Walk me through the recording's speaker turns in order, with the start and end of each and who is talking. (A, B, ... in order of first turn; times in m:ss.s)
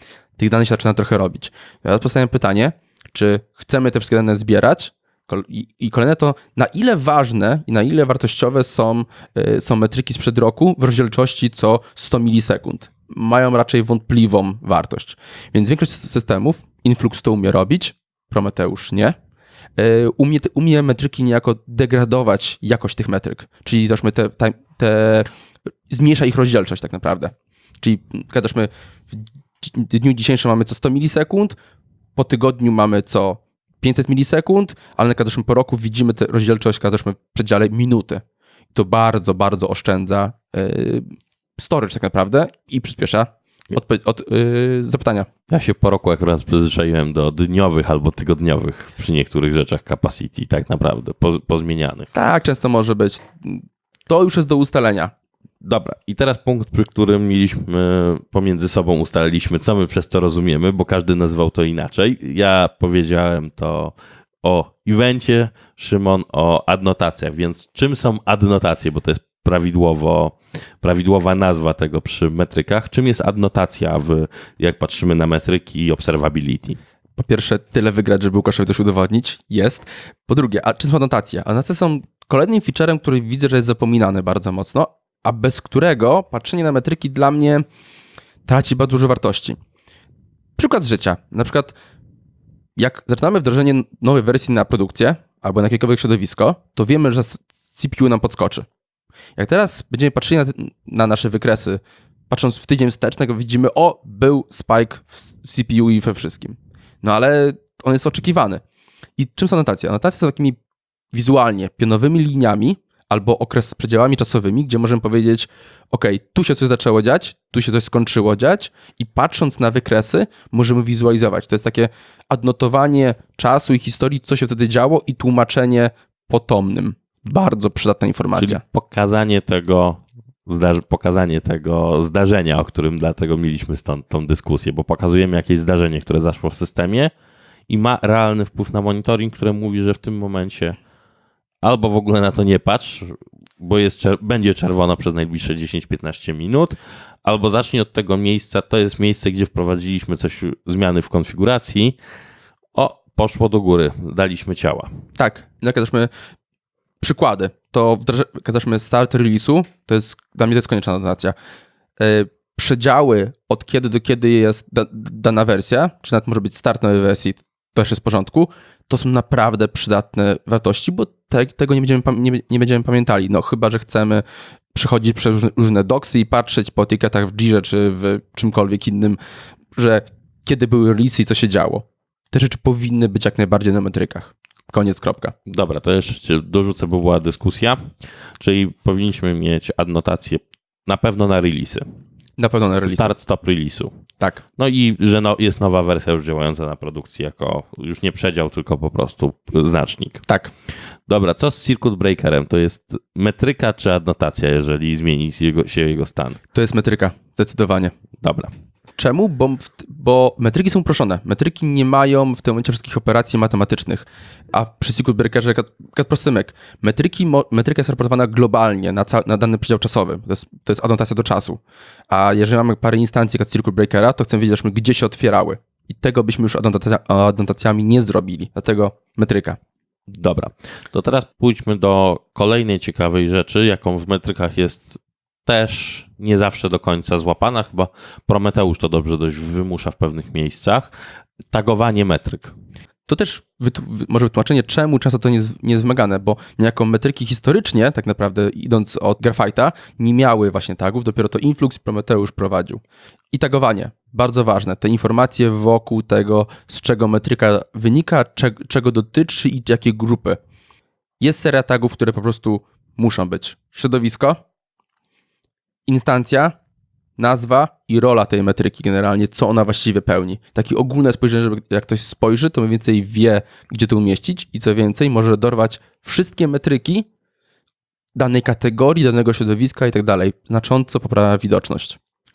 0:00.4-0:19.1 A
0:19.8-0:25.3 A
0:25.9-0:31.6 A
0:32.2-0:38.2 A
0:38.7-0:45.3 A
0:45.5-0:52.1 B
0:52.1-0:55.1 A
0:55.6-1:16.8 B
1:17.2-1:27.6 A
1:28.4-1:29.6 A
1:30.6-1:31.8 A
1:32.8-1:38.6 A
1:39.4-1:48.6 A
1:49.2-1:50.6 A
1:51.1-2:08.6 A
2:08.4-2:17.1 B
2:17.7-2:20.8 B
2:21.6-2:32.0 B
2:32.7-2:34.9 B
2:35.2-2:36.1 A
2:37.0-2:41.3 A
2:42.0-2:54.2 A
2:54.7-2:59.2 A
2:59.7-3:05.3 A
3:05.4-3:11.8 B
3:12.4-3:13.1 A
3:12.6-3:14.0 B
3:14.6-3:20.2 B
3:20.3-3:20.5 A
3:21.1-3:26.4 B
3:26.5-3:27.9 A
3:28.2-3:28.5 B
3:29.0-3:49.6 A
3:50.1-4:00.9 B
4:01.5-4:02.5 B
4:03.1-4:20.4 A
4:21.2-4:24.4 A
4:25.9-4:26.6 A
4:27.2-4:37.1 A
4:38.1-4:42.0 A